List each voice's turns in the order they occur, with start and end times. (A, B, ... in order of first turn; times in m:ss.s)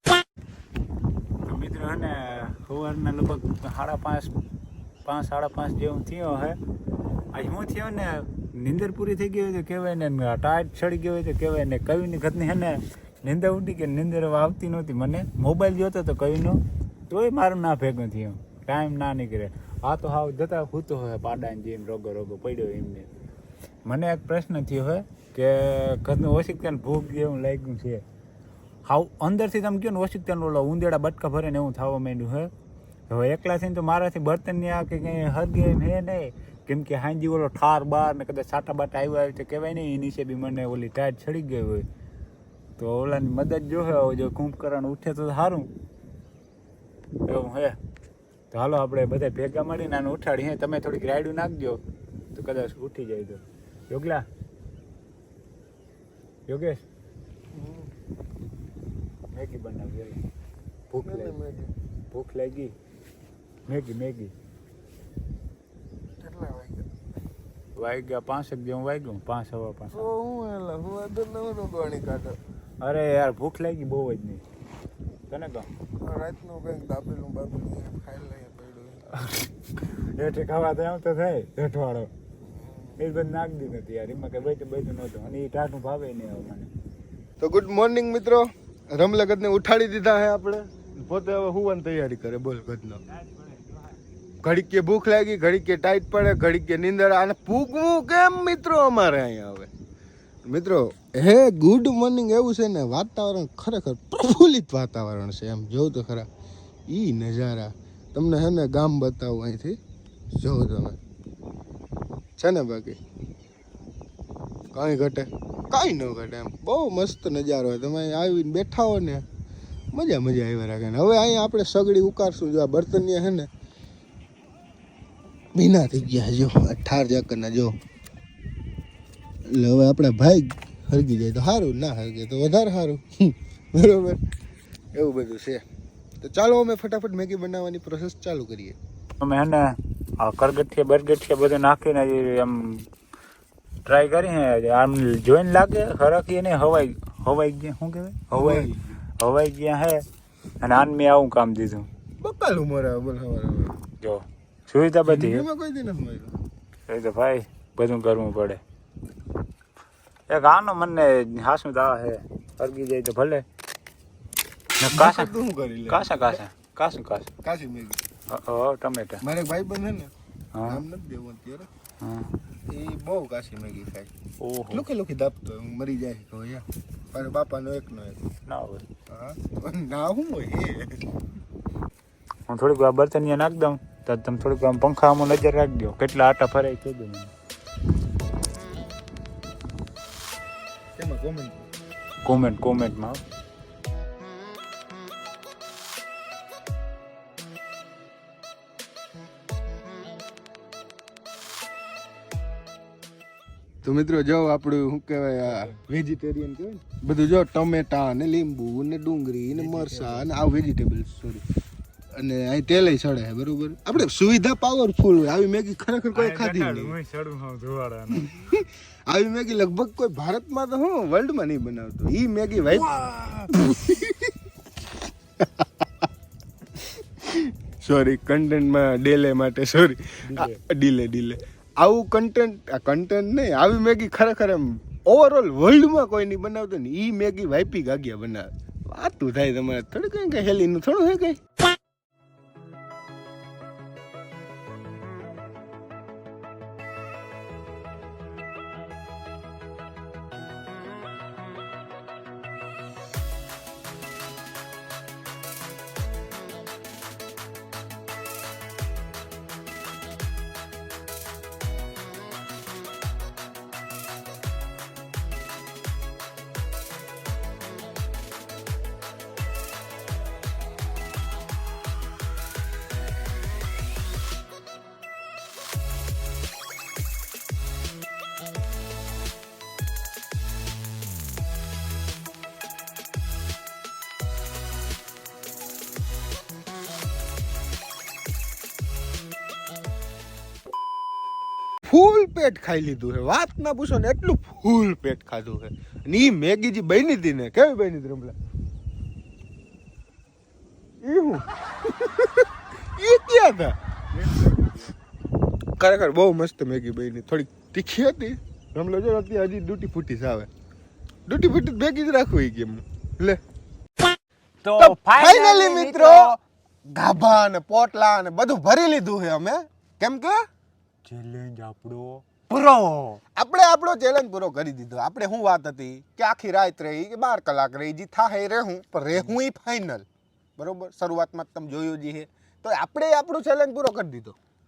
0:01.4-0:04.3 A
0:05.0-0:06.6 A
0:07.3-0:23.1 A
0:23.8-0:28.0 A
0:28.8-0:32.5 A
0:33.1-0:41.8 A
0:42.8-0:45.7 A
0:47.2-0:47.8 A
0:48.5-0:51.8 A
0:52.3-0:54.2 A
0:56.5-0:56.8 A
0:57.5-0:57.9 B
0:59.3-1:00.2 A
1:00.9-1:01.4 A
1:01.0-1:01.7 B
1:02.1-1:02.7 A
1:03.7-1:04.3 A
1:06.2-1:06.9 B
1:07.8-1:10.0 A
1:09.9-1:12.4 B
1:12.8-1:14.4 A
1:15.3-1:15.7 A
1:16.0-1:19.1 B
1:19.9-1:22.1 A
1:22.5-1:23.0 B
1:23.0-1:26.7 A
1:27.4-1:33.0 B
1:33.2-1:33.7 A
1:34.4-1:39.7 B
1:40.4-1:46.3 B
1:46.9-1:49.8 B
1:50.3-1:51.0 B
1:52.4-1:53.0 B
1:54.7-1:59.2 B
1:59.9-2:03.5 B
2:05.5-2:07.8 B
2:09.5-2:14.2 B
2:14.9-2:15.6 B
2:16.2-2:18.8 B
2:19.2-2:22.8 A
2:23.8-2:30.0 A
2:28.3-2:29.0 B
2:30.6-2:31.9 A
2:32.2-2:33.8 B
2:34.0-2:35.5 A
2:35.0-2:36.4 B
2:36.9-2:38.6 A
2:40.3-2:43.4 A
2:44.8-2:45.3 A
2:44.9-2:46.4 B
2:45.9-2:47.3 A
2:47.4-2:48.0 B
2:48.3-2:49.2 A
2:49.2-2:50.1 B
2:50.5-2:50.8 A
2:50.6-2:51.7 B
2:52.0-2:52.3 A
2:52.7-2:54.1 B
2:54.4-2:54.8 A
2:54.7-2:58.2 B
2:58.5-2:58.8 A
2:59.1-3:01.0 B
3:02.5-3:07.3 A
3:11.0-3:11.6 B
3:12.2-3:13.2 A
3:23.8-3:31.4 B
3:25.4-3:25.8 A
3:29.5-3:30.3 A
3:32.1-3:37.0 B
3:36.1-3:38.3 A
3:38.1-3:42.9 B
3:42.9-3:43.5 A
3:43.5-3:44.3 B
3:45.4-3:46.1 B
3:47.2-4:01.4 B
3:50.2-3:50.6 A
4:51.8-4:58.3 B
5:01.0-5:03.8 B
5:04.1-5:04.9 A
5:05.8-5:10.5 B
5:11.3-5:13.4 B
5:14.6-5:16.4 A
5:14.8-5:20.4 B
5:21.0-5:23.2 A
5:23.3-5:30.0 B
5:30.6-5:34.4 B